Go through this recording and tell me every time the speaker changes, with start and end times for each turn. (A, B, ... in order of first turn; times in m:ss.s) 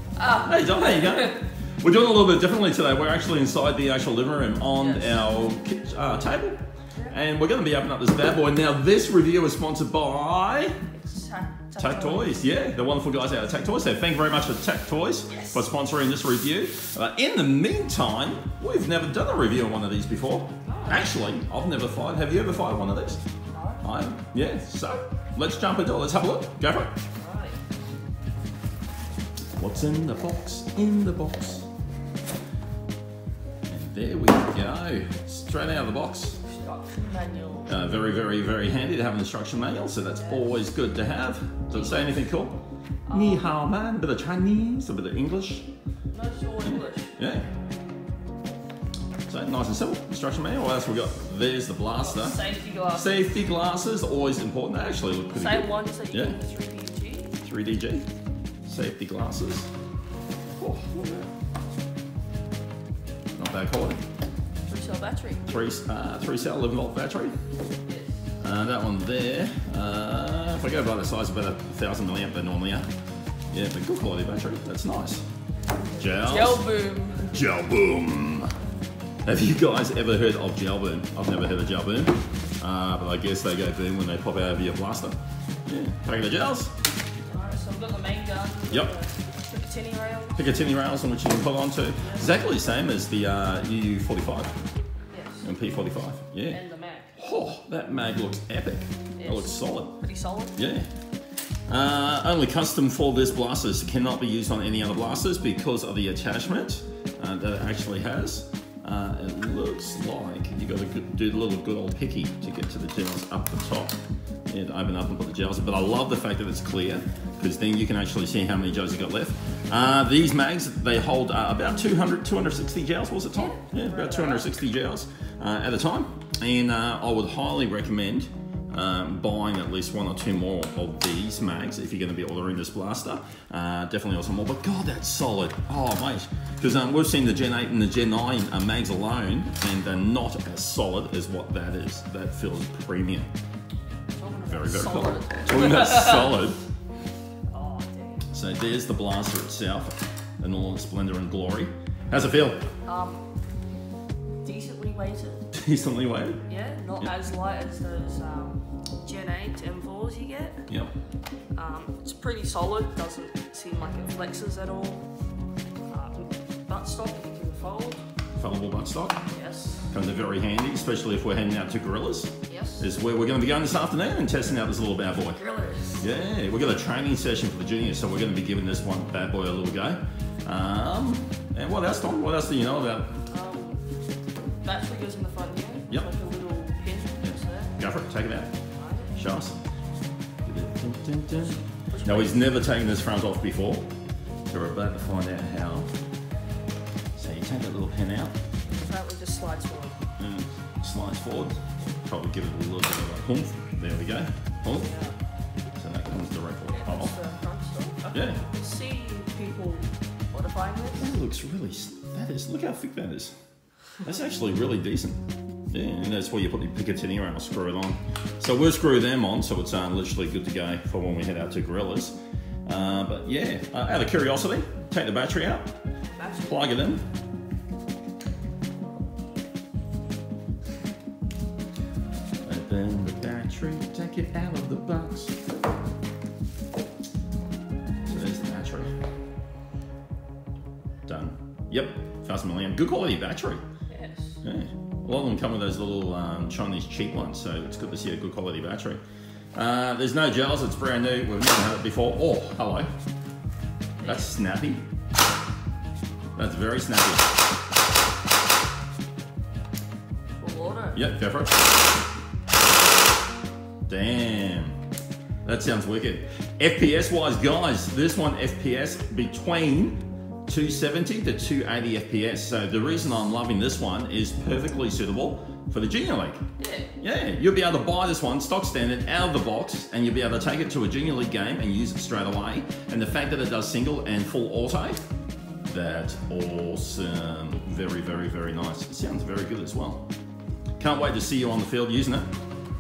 0:00.2-0:01.4 A
0:00.4-0:10.7 B
0:04.8-0:05.1 A
0:10.9-0:12.4 A
0:11.8-0:23.2 B
0:15.3-0:15.6 A
0:20.6-0:21.1 A
0:23.5-0:23.8 A
0:23.8-0:26.9 B
0:27.1-0:27.6 A
0:29.6-0:31.7 B
0:33.7-0:36.4 B
0:36.4-0:37.7 A
0:37.7-0:42.6 B
0:40.2-0:40.6 A
0:41.7-0:42.2 A
0:43.1-0:43.6 A
0:43.1-0:45.7 B
0:46.1-0:47.1 A
0:46.6-0:47.4 B
0:49.3-0:52.4 B
0:51.9-0:53.2 A
0:52.9-0:56.4 B
0:55.3-0:57.4 A
0:57.4-0:58.1 B
0:58.7-0:59.7 B
1:00.6-1:01.3 B
1:03.3-1:04.0 B
1:04.7-1:05.6 A
1:05.5-1:07.3 B
1:07.8-1:08.2 A
1:08.4-1:12.8 B
1:13.5-1:15.2 B
1:16.0-1:16.6 B
1:16.1-1:17.3 A
1:17.3-1:18.5 B
1:19.2-1:25.2 B
1:25.7-1:26.7 B
1:27.2-1:30.5 A
1:30.4-1:34.5 B
1:32.0-1:32.4 A
1:35.1-1:35.5 A
1:35.4-1:36.6 B
1:36.5-1:37.1 A
1:37.2-1:40.0 B
1:39.2-1:40.6 A
1:40.6-1:40.8 B
1:41.7-1:54.0 B
1:54.5-2:23.3 B
2:03.3-2:04.5 A
2:24.2-2:26.4 A
2:24.4-2:26.6 B
2:27.5-2:28.2 A
2:28.3-2:32.6 B
2:32.8-2:33.2 A
2:34.4-2:35.5 A
2:35.5-2:36.4 B
2:36.4-2:40.7 A
2:41.5-2:45.1 A
2:45.9-2:48.0 A
2:48.4-2:49.2 B
2:49.3-2:49.9 A
2:49.9-2:55.4 B
2:52.5-2:52.9 A
2:55.3-2:56.1 A
2:56.0-3:03.2 B
3:03.3-3:03.8 A
3:04.6-3:07.8 A
3:07.2-3:08.5 B
3:08.8-3:09.2 A
3:09.2-3:09.6 B
3:10.4-3:13.9 B
3:11.4-3:12.4 A
3:14.5-3:15.9 B
3:17.2-3:18.3 B
3:18.7-3:20.0 A
3:20.2-3:24.9 B
3:24.7-3:25.2 A
3:25.8-3:27.1 B
3:26.7-3:31.2 A
3:28.1-3:28.4 B
3:31.0-3:33.3 B
3:34.0-3:45.7 B
3:46.1-3:46.7 A
3:46.4-3:47.0 B
3:52.5-3:55.4 B
3:58.1-3:58.9 B
4:01.1-4:03.6 B
4:03.9-4:04.4 A
4:04.4-4:09.0 B
4:09.5-4:12.9 B
4:14.0-4:14.3 A
4:14.0-4:14.8 B
4:16.4-4:17.3 B
4:20.4-4:21.0 A
4:20.9-4:21.6 B
4:23.9-4:24.8 B
4:25.4-4:36.4 B
4:36.6-4:36.9 A
4:37.0-4:45.0 B
4:45.6-4:50.1 B
4:50.8-4:52.3 B